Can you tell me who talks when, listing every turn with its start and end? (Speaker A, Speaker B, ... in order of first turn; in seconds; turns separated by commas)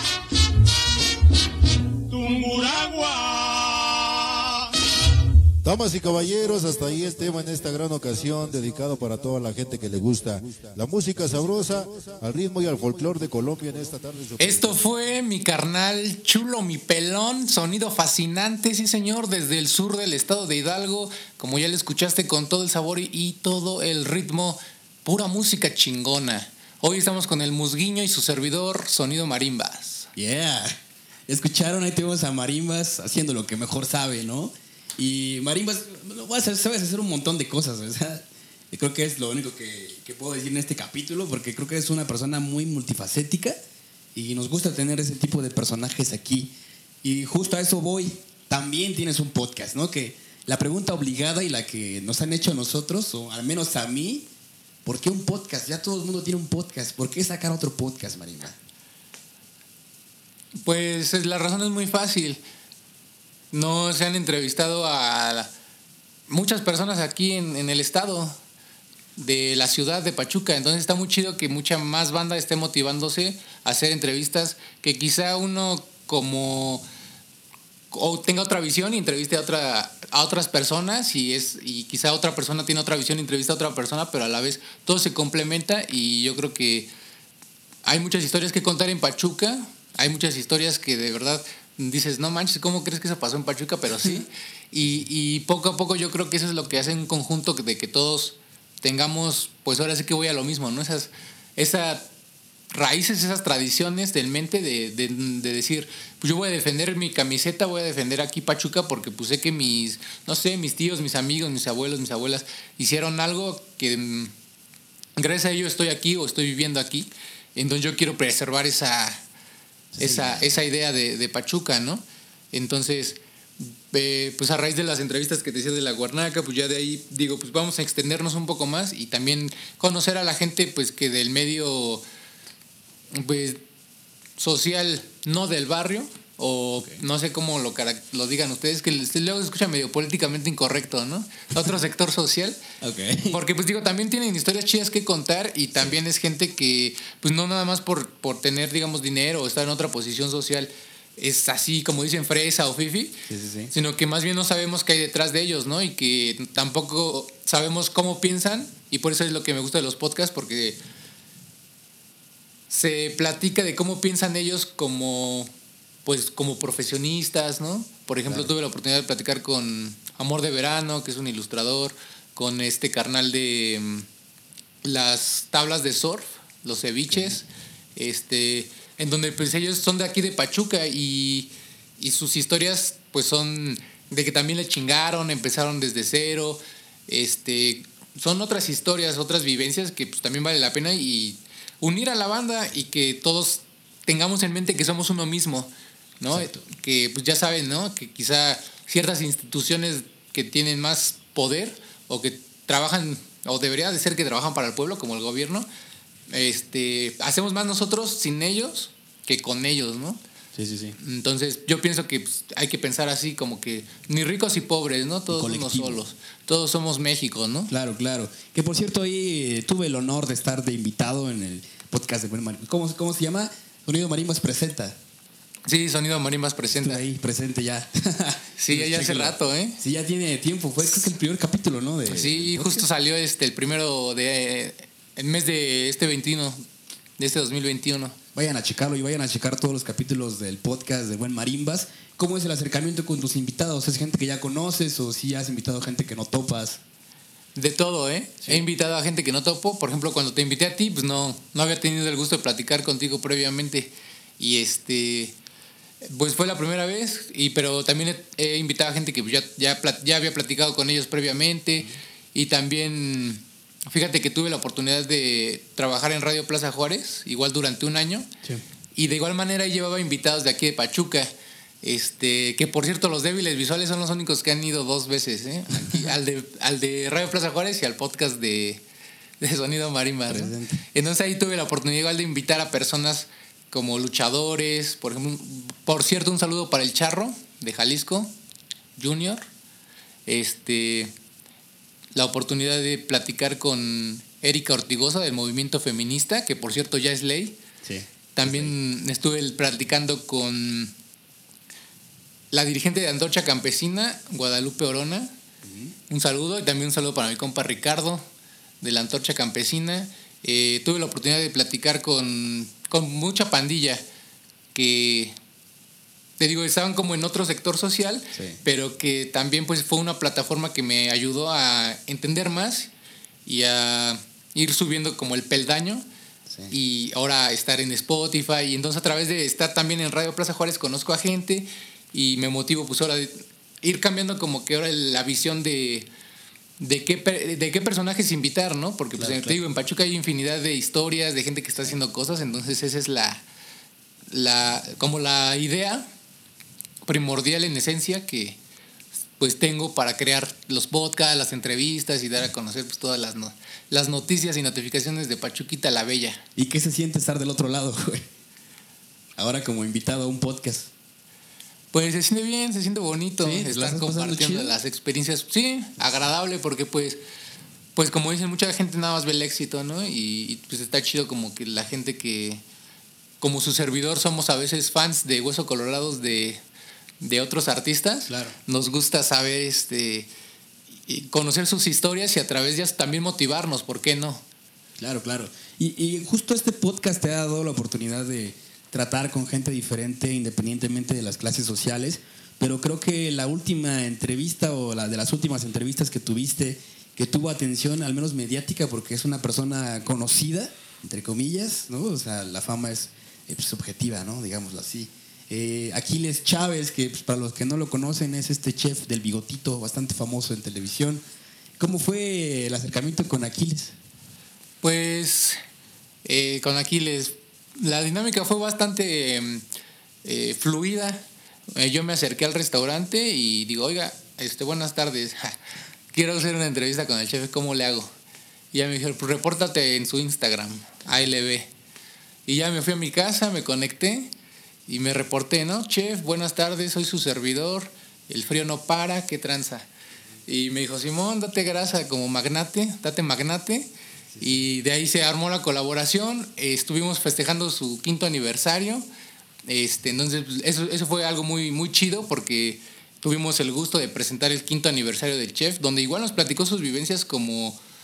Speaker A: 5.6-14.8, Speaker B: 14.4-30.1, Speaker C: 30.1-30.8, Speaker C: 31.3-43.6, Speaker C: 44.1-54.3, Speaker C: 54.8-58.6, Speaker B: 60.6-62.4, Speaker B: 63.5-65.5, Speaker B: 66.3-68.3, Speaker B: 69.2-76.8, Speaker B: 77.9-86.9, Speaker B: 87.8-102.0, Speaker B: 102.7-114.3, Speaker B: 115.2-119.2, Speaker C: 119.9-120.5, Speaker B: 120.0-132.0, Speaker B: 133.1-133.6, Speaker B: 134.4-142.6, Speaker C: 142.8-143.4, Speaker B: 143.2-153.2, Speaker C: 153.3-153.7, Speaker B: 153.7-160.8, Speaker B: 162.7-165.5, Speaker B: 166.0-174.1, Speaker B: 174.8-205.7, Speaker C: 196.3-196.6, Speaker B: 206.3-210.2, Speaker C: 210.5-210.9, Speaker B: 211.0-217.7, Speaker C: 215.3-216.0, Speaker C: 217.7-224.9, Speaker B: 225.7-227.0, Speaker C: 226.7-232.9, Speaker B: 228.6-229.8, Speaker B: 232.1-236.6, Speaker B: 237.2-238.2, Speaker C: 238.3-246.8, Speaker B: 247.6-255.3, Speaker B: 256.0-268.3, Speaker B: 268.9-271.3, Speaker B: 271.8-278.8, Speaker B: 279.4-288.3, Speaker C: 280.3-280.8, Speaker B: 288.9-289.4, Speaker B: 290.2-291.1, Speaker B: 292.1-297.6, Speaker C: 297.8-298.8, Speaker B: 298.3-300.9, Speaker B: 302.5-305.3, Speaker C: 305.6-305.9, Speaker B: 306.1-308.2, Speaker B: 308.8-314.0, Speaker B: 314.7-315.3, Speaker B: 316.4-322.9, Speaker B: 323.4-326.1, Speaker C: 326.5-326.7, Speaker B: 326.7-336.1, Speaker B: 336.8-343.4, Speaker C: 339.2-339.6, Speaker B: 344.3-346.1, Speaker B: 347.0-348.6, Speaker B: 349.4-356.4, Speaker C: 356.6-358.3, Speaker C: 359.4-360.9, Speaker B: 361.9-367.2, Speaker C: 363.4-364.8, Speaker B: 367.9-372.6, Speaker B: 373.4-376.6, Speaker B: 377.2-380.3, Speaker C: 378.3-378.6, Speaker B: 381.1-384.4, Speaker C: 385.0-411.2, Speaker C: 411.8-413.9, Speaker B: 414.8-415.6, Speaker B: 416.2-419.6, Speaker B: 420.2-421.2, Speaker B: 421.8-425.6, Speaker B: 426.1-428.1, Speaker B: 428.7-431.7, Speaker B: 432.5-434.3, Speaker B: 434.9-439.9, Speaker B: 440.4-449.1, Speaker C: 444.3-444.6, Speaker B: 449.6-457.8